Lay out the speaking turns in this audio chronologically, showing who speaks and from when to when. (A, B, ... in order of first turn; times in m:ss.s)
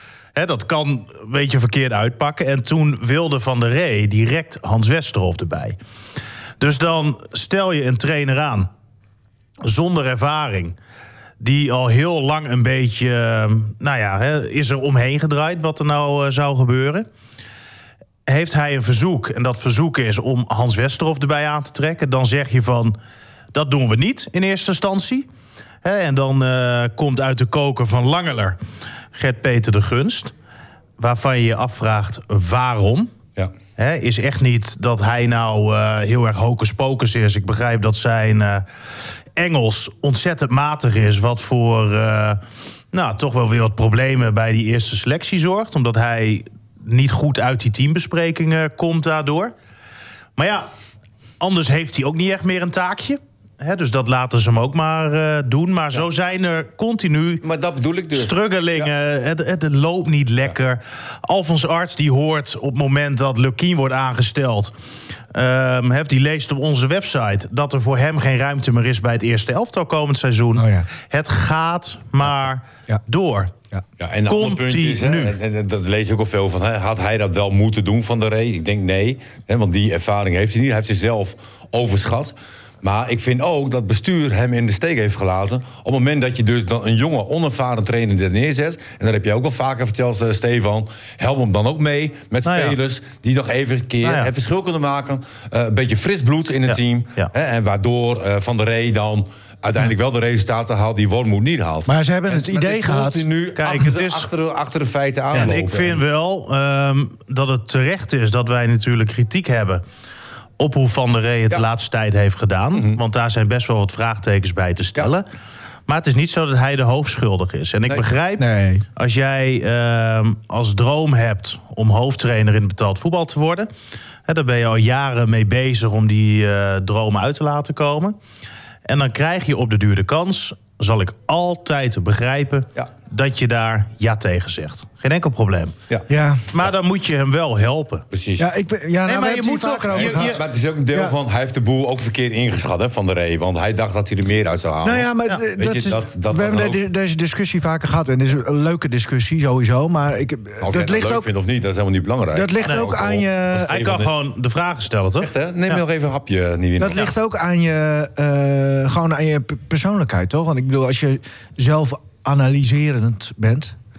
0:00.3-0:05.8 A
0:06.6-0:08.7 A
0:09.6-0:10.8 A
0:11.4-0:17.1 A
0:18.2-0:23.0 A
0:23.5-0:25.2 A
0:25.8-0:28.6 A
0:29.1-0:30.3 A
0:31.0-0:33.1 A
0:33.8-0:38.6 A
0:39.4-0:42.4 A
0:42.9-0:49.5 A
0:50.4-0:50.7 A
0:51.4-0:57.4 A
0:57.4-0:58.9 B
0:58.1-1:04.7 A
1:05.3-1:13.5 A
1:10.6-1:10.9 C
1:14.0-1:46.0 B
1:14.3-1:15.3 A
1:32.4-1:32.8 A
1:34.0-1:34.3 A
1:36.7-1:37.3 A
1:41.9-1:43.2 C
1:43.6-1:44.3 A
1:45.3-1:49.8 A
1:50.6-1:55.2 A
1:52.7-1:53.0 B
1:55.9-1:58.4 A
1:58.4-1:58.8 C
1:59.0-2:03.7 A
2:04.2-2:08.2 A
2:08.8-2:15.8 A
2:16.1-2:16.4 C
2:16.5-2:18.1 A
2:18.1-2:18.5 B
2:18.4-2:21.1 C
2:19.0-2:20.4 A
2:19.9-2:26.8 B
2:24.8-2:31.2 C
2:30.6-2:34.1 B
2:32.3-2:33.7 C
2:32.6-2:33.0 A
2:33.6-2:35.8 A
2:35.2-2:37.1 B
2:36.8-2:43.8 C